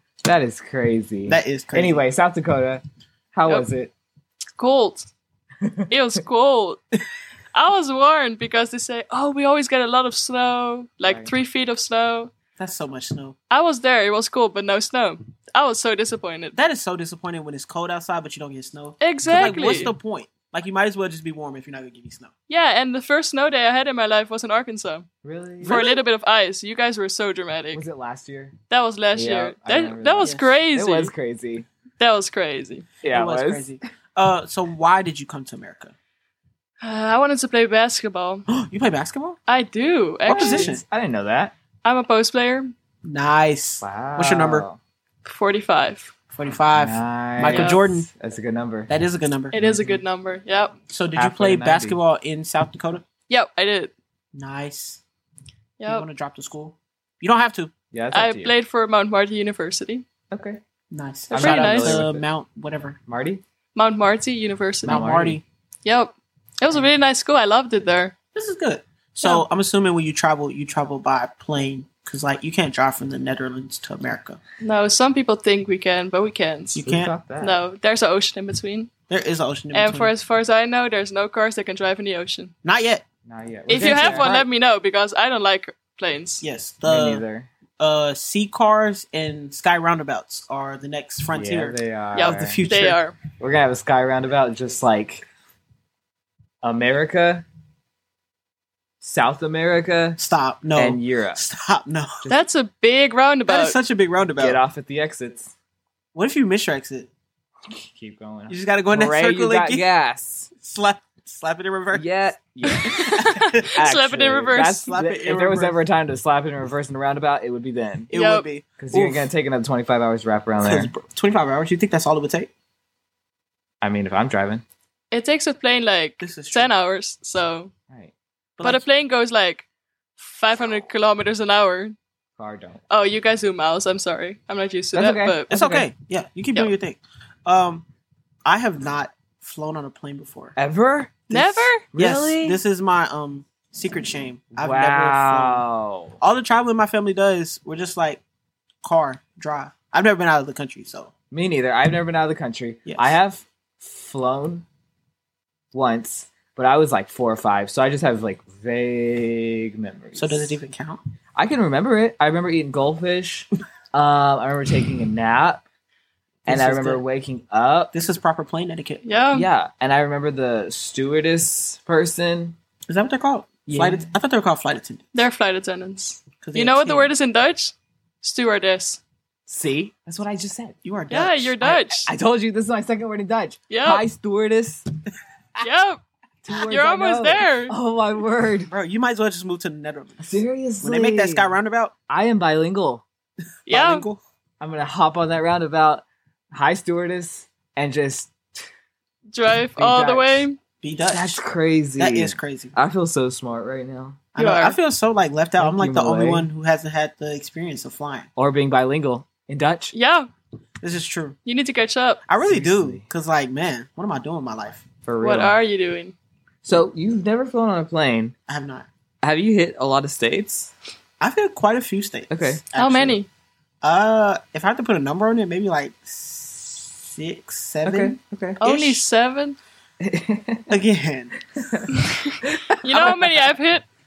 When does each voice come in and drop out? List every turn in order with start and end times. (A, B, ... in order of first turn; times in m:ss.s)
0:00.2-0:03.9 A
0:01.3-0:02.0 B
0:04.6-0:05.1 C
0:05.6-0:06.2 A
0:05.9-0:06.8 C
0:07.5-0:12.3 C
0:11.0-0:11.3 A
0:12.6-0:13.4 B
0:13.5-0:16.6 C
0:16.5-0:22.3 B
0:19.0-0:19.9 C
0:19.2-0:20.0 A
0:22.5-0:25.1 C
0:25.2-0:25.8 A
0:25.6-0:26.0 B
0:25.6-0:27.8 C
0:27.7-0:28.6 A
0:28.7-0:31.1 C
0:29.1-0:31.6 A
0:30.2-0:30.6 B
0:32.0-0:32.9 C
0:33.0-0:33.7 A
0:33.0-0:35.9 B
0:36.8-0:38.4 C
0:38.5-0:39.4 B
0:39.5-0:40.7 C
0:40.3-0:40.8 B
0:40.3-0:41.5 A
0:41.8-0:42.7 C
0:43.0-0:44.7 B
0:43.8-0:44.8 A
0:45.2-0:46.1 C
0:46.3-0:48.1 B
0:46.7-0:48.9 A
0:47.4-0:47.8 C
0:48.9-0:49.6 B
0:49.5-0:50.7 C
0:49.5-0:50.0 A
0:50.9-0:53.0 B
0:51.2-0:52.0 A
0:53.3-0:53.9 C
0:54.3-0:55.0 B
0:55.8-0:56.0 C
0:55.8-0:57.7 B
0:57.9-0:58.5 A
0:58.1-1:00.0 C
1:00.3-1:00.6 A
1:00.9-1:03.0 B
1:01.3-1:02.0 C
1:01.3-1:02.2 A
1:03.0-1:03.4 A
1:03.7-1:05.0 C
1:04.8-1:05.4 A
1:04.8-1:05.4 B
1:05.8-1:08.1 C
1:08.3-1:14.4 B
1:14.6-1:16.8 C
1:16.7-1:17.1 B
1:16.8-1:17.6 A
1:17.4-1:18.9 C
1:19.1-1:20.1 B
1:19.7-1:22.5 C
1:22.6-1:23.0 B
1:23.2-1:24.3 A
1:23.7-1:24.4 B
1:23.7-1:26.4 C
1:26.4-1:27.2 B
1:26.8-1:27.5 A
1:27.8-1:33.0 B
1:31.3-1:32.6 A
1:32.1-1:33.2 C
1:33.4-1:35.2 A
1:36.6-1:37.4 A
1:39.0-1:40.2 A
1:40.2-1:42.3 B
1:40.8-1:41.4 A
1:42.3-1:43.8 C
1:43.5-1:44.6 B
1:44.4-1:45.5 A
1:46.1-1:47.1 B
1:47.7-1:50.5 A
1:48.5-1:49.9 B
1:50.5-1:52.1 B
1:51.9-1:58.1 A
1:52.7-1:54.9 C
1:53.2-1:53.7 B
1:54.8-1:55.8 B
1:58.1-1:59.3 B
1:58.1-1:58.5 C
1:58.8-2:00.9 A
2:00.6-2:02.5 B
2:03.8-2:04.6 A
2:05.1-2:07.7 C
2:06.2-2:06.7 B
2:08.6-2:08.8 B
2:08.6-2:09.6 C
2:10.2-2:12.0 C
2:12.4-2:12.8 A
2:12.9-2:15.5 C
2:14.9-2:15.9 A
2:15.5-2:17.8 B
2:18.4-2:20.5 B
2:20.6-2:21.3 A
2:21.3-2:21.8 C
2:21.3-2:25.6 B
2:21.9-2:22.6 A
2:24.5-2:26.2 A
2:26.2-2:28.2 B
2:28.8-2:31.1 B
2:31.3-2:34.6 A
2:32.8-2:33.2 B
2:35.7-2:40.6 A
2:40.1-2:41.0 B
2:41.4-2:45.6 A
2:46.4-2:47.0 B
2:46.5-2:47.9 A
2:47.9-2:49.0 B
2:49.0-2:49.5 C
2:49.3-2:52.6 A
2:52.9-2:55.2 B
2:53.7-2:54.1 A
2:55.1-2:59.0 C
2:56.4-2:57.1 B
2:59.5-3:00.8 A
3:00.8-3:01.5 B
3:01.1-3:02.1 C
3:01.6-3:04.8 A
3:03.7-3:04.0 C
3:05.6-3:07.7 C
3:06.4-3:08.7 A
3:08.7-3:11.9 B
3:10.2-3:11.5 A
3:12.1-3:13.0 A
3:13.7-3:14.0 C
3:13.7-3:14.2 B
3:14.6-3:18.7 A
3:19.3-3:20.6 C
3:19.8-3:20.5 A
3:20.8-3:21.4 B
3:21.1-3:24.2 A
3:22.0-3:22.7 B
3:24.3-3:28.3 B
3:24.4-3:24.8 C
3:25.6-3:26.5 A
3:28.4-3:29.9 A
3:29.9-3:30.3 C
3:30.8-3:31.4 B
3:31.4-3:32.2 C
3:32.3-3:34.8 B
3:32.4-3:33.0 A
3:35.0-3:35.6 A
3:35.2-3:36.1 C
3:36.6-3:38.3 A
3:38.5-3:38.9 B
3:39.2-3:40.7 A
3:41.2-3:43.2 B
3:42.3-3:42.6 A
3:42.7-3:43.3 C
3:43.8-3:49.0 B
3:47.8-3:48.6 A
3:48.6-3:49.6 C
3:50.0-3:50.8 A
3:50.7-3:51.4 B
3:51.5-3:53.5 A
3:51.9-3:53.8 C